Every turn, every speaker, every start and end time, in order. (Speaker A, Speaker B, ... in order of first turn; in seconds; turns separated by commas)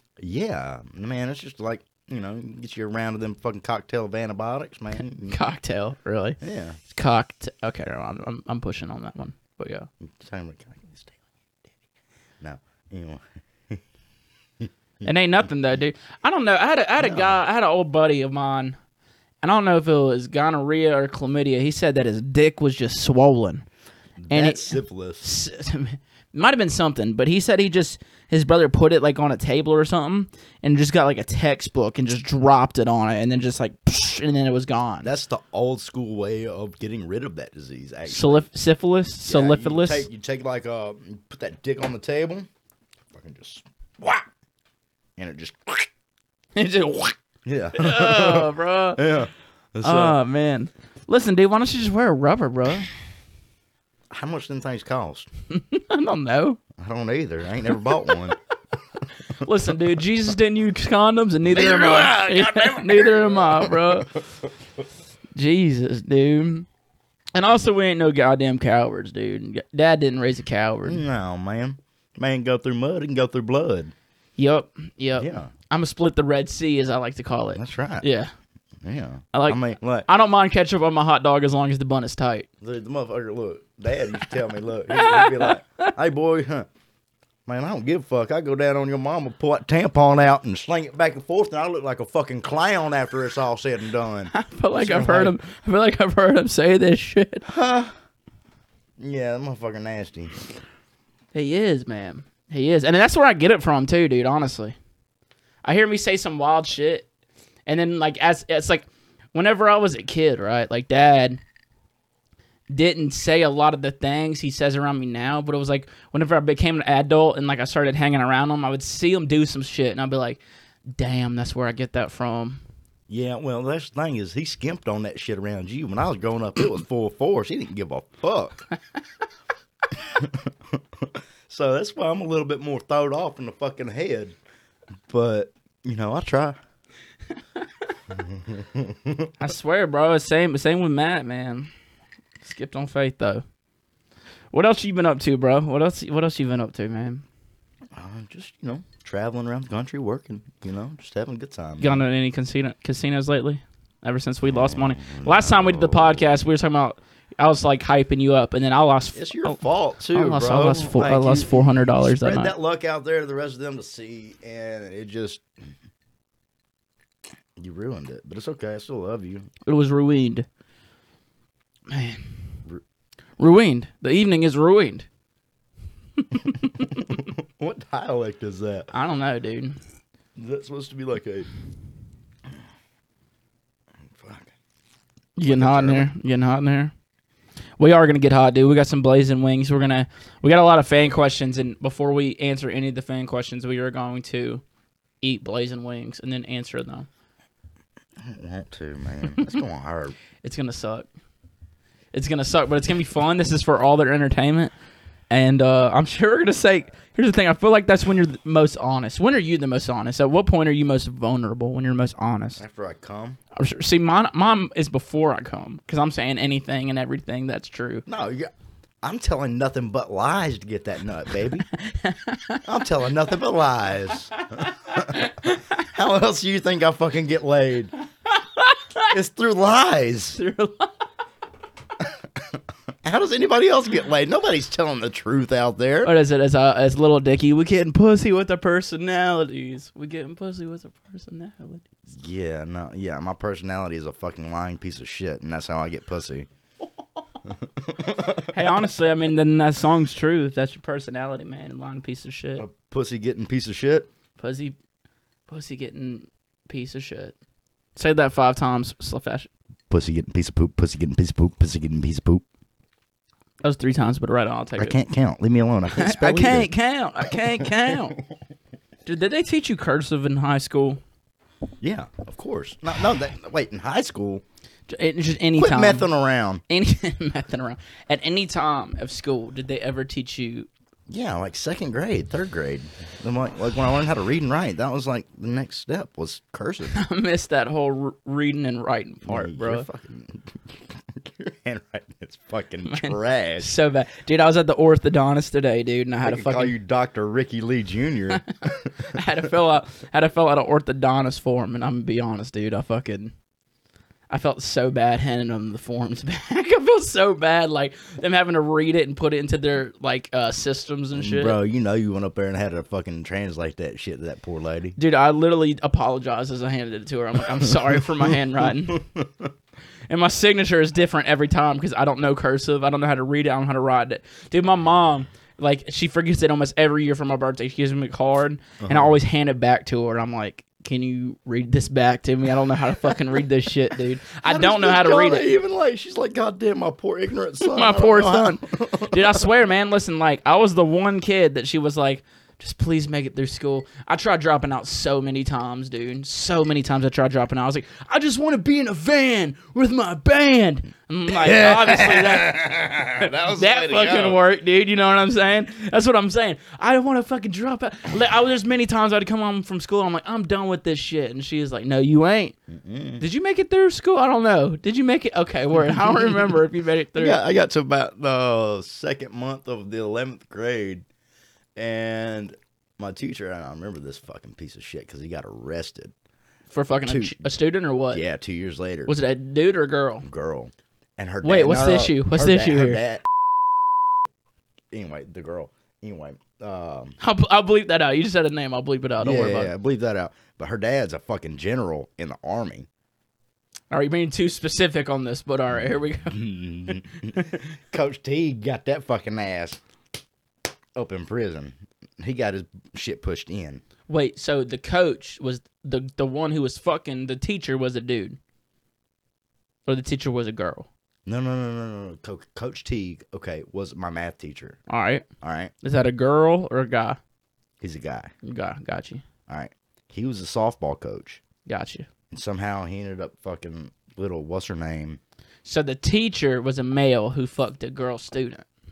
Speaker A: 0.2-5.4, Speaker B: 5.0-9.9, Speaker A: 6.4-6.8, Speaker A: 10.0-11.8, Speaker A: 12.4-13.8, Speaker A: 14.6-15.1, Speaker B: 15.0-18.8, Speaker A: 17.0-17.4, Speaker B: 19.4-23.6, Speaker A: 24.2-25.3, Speaker B: 24.3-35.1, Speaker A: 35.0-38.5, Speaker B: 38.1-40.1, Speaker A: 39.2-42.5, Speaker A: 43.1-44.3, Speaker A: 45.2-45.9, Speaker B: 46.6-47.1, Speaker A: 47.5-50.2, Speaker B: 47.7-49.1, Speaker B: 49.8-52.9, Speaker A: 54.1-55.3, Speaker B: 55.5-56.6, Speaker A: 56.8-58.4, Speaker B: 59.4-64.1, Speaker A: 61.5-64.2, Speaker B: 65.3-66.7, Speaker B: 67.3-71.0, Speaker A: 70.8-73.9, Speaker B: 74.4-78.3, Speaker A: 75.2-75.5, Speaker A: 77.5-78.0, Speaker A: 78.8-80.1, Speaker B: 79.3-82.5, Speaker A: 82.6-86.7, Speaker B: 84.9-85.9, Speaker A: 87.5-95.4, Speaker B: 94.3-97.5, Speaker A: 97.5-98.0, Speaker A: 99.0-100.4, Speaker B: 101.3-104.8, Speaker B: 105.6-107.1, Speaker B: 107.7-111.4, Speaker B: 112.7-120.4, Speaker B: 121.0-122.6, Speaker A: 123.1-128.7, Speaker A: 130.0-134.4, Speaker A: 135.1-136.6, Speaker A: 138.1-139.3, Speaker B: 139.4-141.7, Speaker B: 142.4-143.4, Speaker B: 144.5-147.2, Speaker A: 147.9-152.0, Speaker B: 151.8-159.6, Speaker A: 154.4-156.3, Speaker A: 159.1-165.4, Speaker B: 160.1-162.5, Speaker A: 167.6-169.5, Speaker B: 169.7-170.5, Speaker B: 171.9-172.3, Speaker B: 173.4-175.1, Speaker B: 176.3-177.0, Speaker A: 176.8-178.9, Speaker B: 178.9-179.8, Speaker A: 180.4-181.5, Speaker A: 184.1-184.5, Speaker B: 185.4-186.9, Speaker A: 185.4-186.1, Speaker B: 187.8-194.6, Speaker B: 195.2-197.1, Speaker A: 198.2-200.2, Speaker B: 200.4-201.1, Speaker B: 202.1-204.7, Speaker B: 205.3-212.6, Speaker A: 212.6-213.4, Speaker B: 213.6-218.1, Speaker A: 218.1-218.5, Speaker A: 219.0-221.7, Speaker B: 221.8-222.6, Speaker A: 222.6-227.9, Speaker B: 224.7-225.6, Speaker B: 228.6-229.1, Speaker A: 229.1-230.4, Speaker B: 230.3-230.9, Speaker A: 233.0-236.1, Speaker B: 236.0-241.8, Speaker A: 242.1-246.5, Speaker A: 247.6-248.6, Speaker B: 248.5-252.7, Speaker A: 252.6-254.1, Speaker B: 254.4-254.8, Speaker B: 255.5-257.4, Speaker B: 258.0-259.5, Speaker A: 259.9-262.4, Speaker B: 263.6-265.0, Speaker A: 264.8-266.7, Speaker B: 265.9-268.2, Speaker A: 267.3-268.2, Speaker B: 269.1-271.0, Speaker A: 271.8-274.4, Speaker B: 274.9-276.1, Speaker A: 275.6-276.6, Speaker B: 276.7-280.7, Speaker A: 281.1-287.0, Speaker B: 286.9-289.9, Speaker A: 289.2-293.7, Speaker B: 292.9-296.7, Speaker A: 296.2-299.2, Speaker B: 299.1-303.3, Speaker B: 304.3-311.6, Speaker A: 311.2-315.0, Speaker B: 315.0-319.0, Speaker A: 317.5-319.5, Speaker B: 320.1-335.5, Speaker A: 328.8-329.2, Speaker A: 334.4-339.5, Speaker B: 337.6-352.6, Speaker A: 351.3-354.4, Speaker B: 353.2-362.6, Speaker A: 362.7-363.2, Speaker B: 363.2-367.4, Speaker A: 365.9-366.5, Speaker A: 367.1-371.1, Speaker A: 371.8-376.1, Speaker B: 376.7-378.2, Speaker A: 377.1-377.5, Speaker A: 378.1-379.1, Speaker B: 379.1-380.2, Speaker A: 380.2-383.2, Speaker B: 381.4-383.0, Speaker A: 384.9-387.2, Speaker B: 387.2-389.7, Speaker A: 389.2-392.9, Speaker B: 393.9-397.5, Speaker A: 395.7-399.8, Speaker A: 400.9-403.8, Speaker B: 404.1-408.4, Speaker B: 409.9-410.9, Speaker A: 411.3-414.8, Speaker B: 414.9-415.2, Speaker A: 415.4-415.7, Speaker B: 415.8-417.2, Speaker A: 417.8-418.3, Speaker B: 418.4-419.2, Speaker A: 419.5-421.4, Speaker B: 421.7-422.1, Speaker A: 422.3-425.2, Speaker B: 425.6-428.7